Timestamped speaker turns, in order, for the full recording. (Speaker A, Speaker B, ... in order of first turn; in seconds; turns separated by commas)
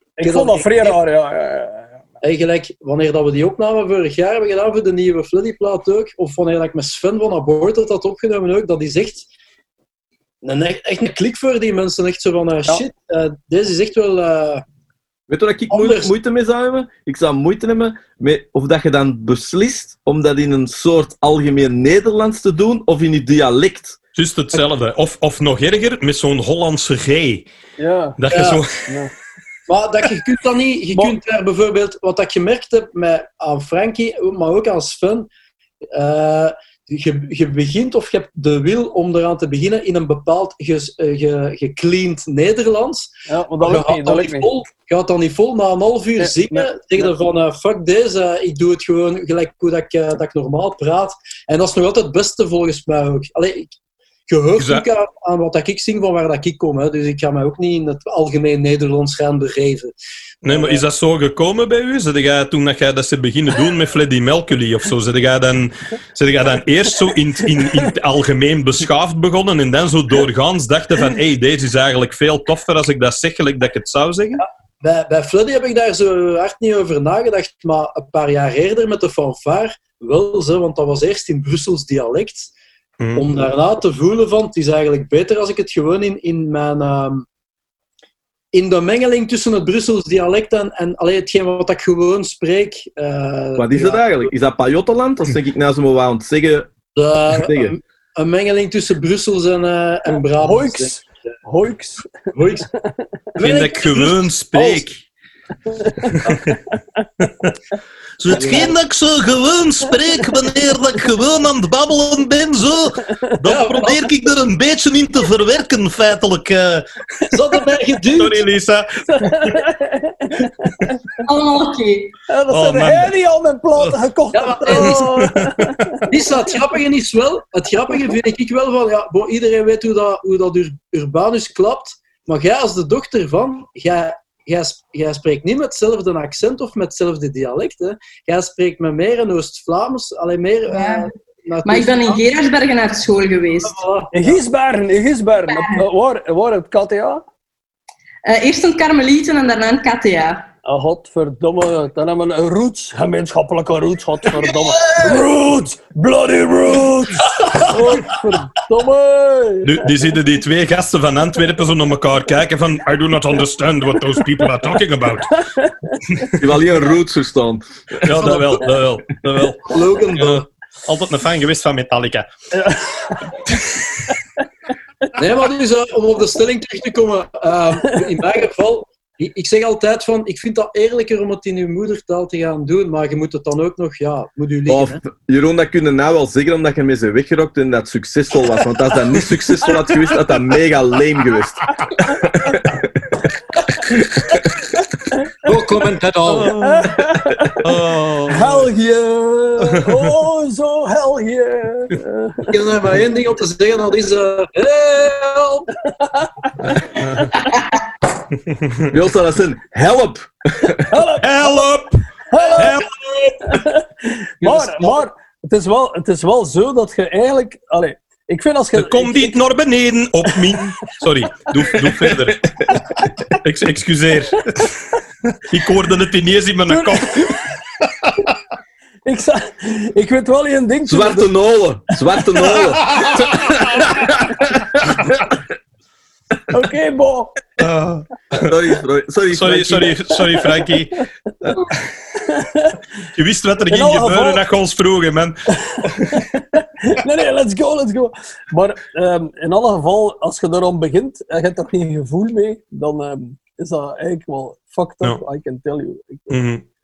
Speaker A: 0.2-1.9, Speaker B: 0.2-1.0, Speaker B: 2.2-9.3, Speaker B: 10.4-14.6, Speaker C: 15.3-24.0, Speaker B: 15.7-16.1, Speaker D: 24.1-27.5, Speaker A: 27.8-28.2, Speaker D: 28.2-28.8, Speaker B: 28.3-28.6, Speaker A: 28.9-29.1, Speaker B: 29.7-35.3, Speaker B: 35.9-53.7, Speaker A: 43.3-44.5, Speaker A: 46.2-46.7, Speaker B: 54.3-59.9, Speaker D: 54.6-54.8, Speaker D: 60.4-74.4, Speaker B: 74.8-82.5, Speaker D: 83.0-83.3, Speaker B: 83.2-87.2, Speaker B: 88.5-94.3, Speaker C: 93.6-96.7, Speaker B: 97.0-101.1, Speaker C: 97.3-97.8, Speaker A: 100.4-102.1, Speaker B: 102.3-102.7, Speaker B: 103.4-104.3, Speaker D: 103.4-105.0, Speaker A: 105.8-106.3, Speaker D: 108.2-116.9, Speaker B: 108.3-108.8, Speaker B: 113.4-114.2, Speaker B: 117.3-118.4, Speaker D: 118.1-119.6, Speaker A: 119.1-120.9, Speaker E: 121.2-122.1, Speaker A: 122.3-126.1, Speaker D: 122.5-123.1, Speaker B: 124.3-125.1, Speaker D: 124.7-125.8, Speaker B: 126.1-142.2, Speaker E: 140.7-141.1, Speaker E: 141.6-143.8, Speaker B: 143.6-144.4, Speaker A: 144.1-147.2, Speaker E: 145.5-145.8, Speaker E: 148.2-150.5, Speaker A: 150.6-159.8, Speaker B: 154.5-155.1, Speaker D: 159.6-165.4, Speaker D: 166.1-166.4, Speaker C: 166.4-168.3, Speaker D: 168.0-172.3, Speaker B: 168.2-168.6, Speaker B: 169.6-170.4, Speaker A: 172.5-173.4, Speaker B: 175.2-185.0, Speaker C: 184.7-192.9, Speaker B: 195.4-196.5, Speaker D: 196.2-197.0, Speaker A: 196.5-197.6, Speaker D: 197.6-198.7, Speaker A: 198.3-202.5, Speaker B: 202.5-205.7, Speaker A: 205.8-206.5, Speaker D: 206.6-207.3, Speaker C: 208.9-210.9, Speaker A: 210.9-211.6, Speaker D: 211.2-212.0, Speaker A: 212.3-212.8, Speaker D: 212.5-213.6, Speaker A: 213.5-219.4, Speaker B: 214.4-215.0, Speaker D: 218.8-222.5, Speaker C: 222.1-222.7, Speaker D: 223.3-227.4, Speaker A: 226.7-227.4, Speaker A: 229.0-231.3, Speaker C: 230.9-235.4, Speaker D: 233.0-233.2, Speaker A: 236.5-237.4, Speaker D: 237.6-238.5, Speaker C: 238.4-239.9, Speaker D: 239.3-241.0, Speaker A: 242.2-242.8, Speaker D: 243.1-246.2, Speaker A: 243.7-244.4, Speaker A: 245.7-256.3, Speaker D: 256.3-256.6